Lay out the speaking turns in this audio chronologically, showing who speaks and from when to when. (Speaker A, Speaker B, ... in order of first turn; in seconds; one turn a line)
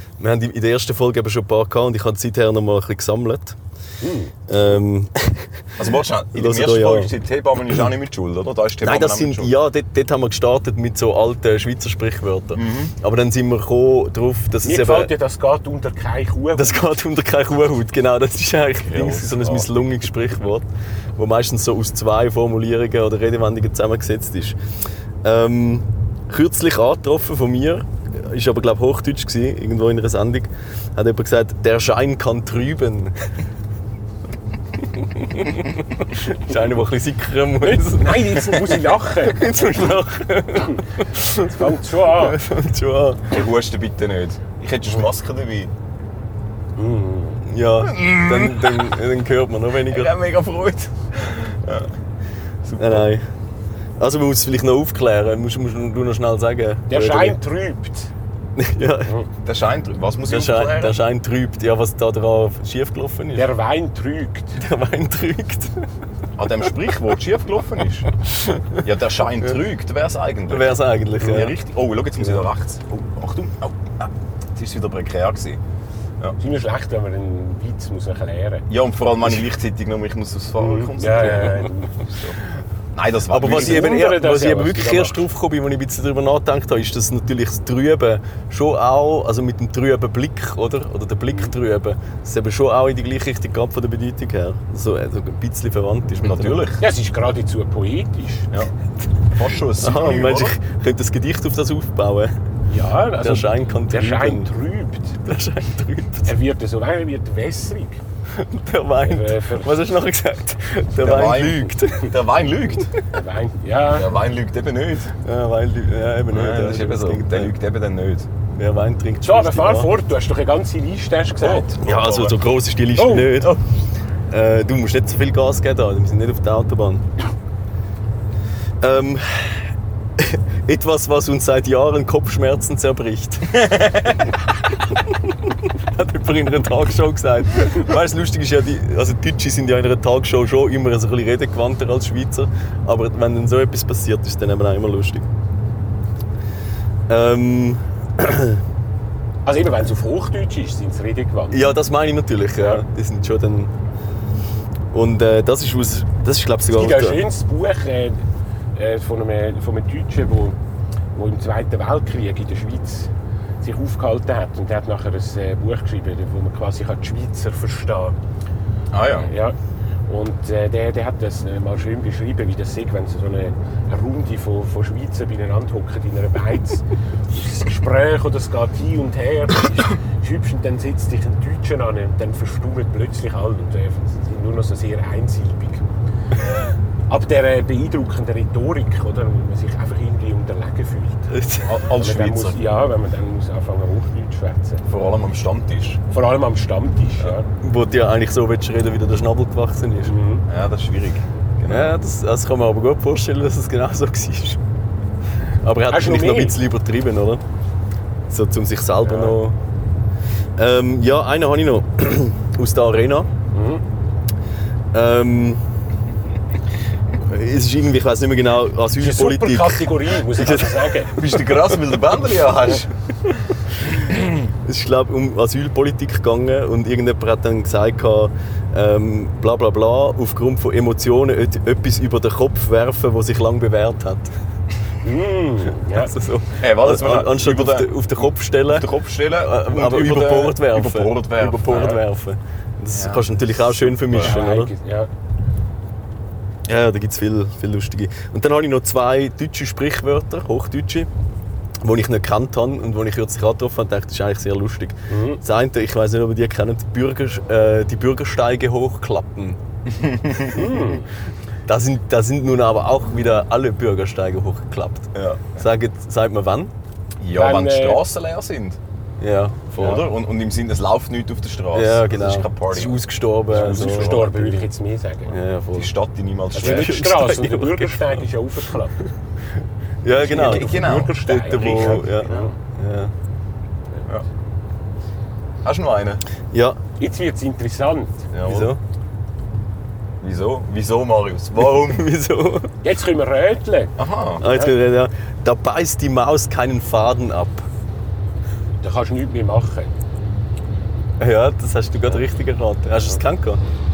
Speaker A: 0.2-3.6
Speaker B: 4.0-4.3
Speaker A: 4.5-7.1
Speaker C: 5.8-9.5
Speaker A: 8.8-15.1
Speaker C: 12.6-12.9
Speaker B: 14.6-16.9
Speaker A: 16.5-24.6
Speaker C: 18.8-19.7
Speaker A: 25.2-33.1
Speaker A: 34.8-43.3
Speaker B: 37.6-39.9
Speaker B: 40.5-40.8
Speaker B: 41.4-42.4
Speaker C: 43.3-45.7
Speaker B: 46.8-47.4
Speaker A: 47.4-50.1
Speaker C: 47.8-48.9
Speaker C: 49.9-51.9
Speaker C: 52.6-53.1
Speaker A: 52.8-53.2
Speaker A: 54.0-57.4
Speaker B: 56.9-58.1
Speaker A: 58.5-59.1
Speaker C: 59.4-61.0
Speaker A: 60.2-63.5
Speaker B: 63.3-64.6
Speaker A: 64.6-65.8
Speaker C: 66.4-68.1
Speaker A: 68.3-68.8
Speaker C: 68.8-75.6
Speaker A: 70.5-71.5
Speaker B: 76.4-78.7
Speaker C: 78.7-82.3
Speaker B: 80.5-82.0
Speaker C: 82.9-84.0
Speaker A: 83.3-96.6
Speaker B: 83.4-85.2
Speaker C: 96.2-96.8
Speaker B: 96.8-98.5
Speaker C: 99.3-100.5
Speaker A: 99.8-102.3
Speaker B: 102.7-105.2
Speaker A: 103.2-104.5
Speaker A: 105.2-106.4
Speaker B: 106.2-108.0
Speaker A: 108.3-112.1
Speaker B: 109.0-109.8
Speaker C: 111.0-112.9
Speaker B: 113.1-114.1
Speaker C: 113.9-115.1
Speaker A: 115.2-117.5
Speaker C: 116.3-118.3
Speaker A: 118.5-119.9
Speaker B: 119.2-121.7
Speaker C: 121.4-122.3
Speaker A: 121.8-123.6
Speaker B: 123.0-123.5
Speaker A: 124.3-127.1
Speaker A: 128.8-133.7
Speaker C: 133.5-134.2
Speaker A: 135.1-145.3
Speaker A: 147.1-148.6
Speaker B: 149.4-151.7
Speaker A: 151.5-153.7
Speaker B: 152.6-152.8
Speaker A: 154.9-157.2
Speaker B: 156.7-158.2
Speaker B: 158.7-160.6
Speaker B: 161.1-168.2
Speaker C: 168.9-169.3
Speaker B: 169.2-169.6
Speaker B: 170.1-185.8
Speaker B: 187.1-191.3
Speaker A: 191.3-191.7
Speaker C: 191.6-192.7
Speaker B: 191.9-194.8
Speaker C: 194.9-196.0
Speaker B: 196.1-197.5
Speaker A: 197.6-200.1
Speaker B: 200.0-200.4
Speaker C: 200.5-202.0
Speaker A: 201.7-204.6
Speaker A: 205.6-207.4
Speaker B: 205.9-206.6
Speaker A: 208.3-209.6
Speaker B: 209.0-209.4
Speaker A: 210.6-213.3
Speaker B: 213.5-213.8
Speaker A: 214.9-215.6
Speaker A: 217.2-221.2
Speaker B: 219.0-221.2
Speaker C: 221.1-223.4
Speaker C: 223.9-224.3
Speaker A: 224.6-234.3
Speaker B: 235.0-236.1
Speaker A: 235.9-244.7
Speaker C: 236.6-242.0
Speaker C: 242.9-244.3
Speaker B: 244.1-245.1
Speaker A: 246.7-251.1
Speaker A: 251.8-259.6
Speaker B: 255.1-255.4
Speaker C: 259.9-260.6
Speaker B: 260.5-261.1
Speaker A: 261.7-266.7
Speaker C: 265.1-265.6
Speaker C: 267.2-268.8
Speaker B: 267.3-268.0
Speaker A: 269.2-270.1
Speaker C: 269.8-274.5
Speaker A: 271.7-274.6
Speaker B: 273.5-275.4
Speaker A: 275.3-275.9
Speaker C: 275.7-277.0
Speaker B: 276.5-279.0
Speaker A: 276.5-278.2
Speaker A: 280.0-283.1
Speaker B: 280.1-282.5
Speaker C: 280.2-282.5
Speaker C: 285.6-286.2
Speaker A: 286.5-286.8
Speaker B: 287.0-288.3
Speaker C: 288.3-288.7
Speaker A: 288.4-288.8
Speaker C: 290.2-292.1
Speaker A: 291.6-292.7
Speaker B: 292.8-294.7
Speaker C: 294.0-294.4
Speaker A: 294.4-297.7
Speaker B: 298.8-299.9
Speaker A: 301.2-303.6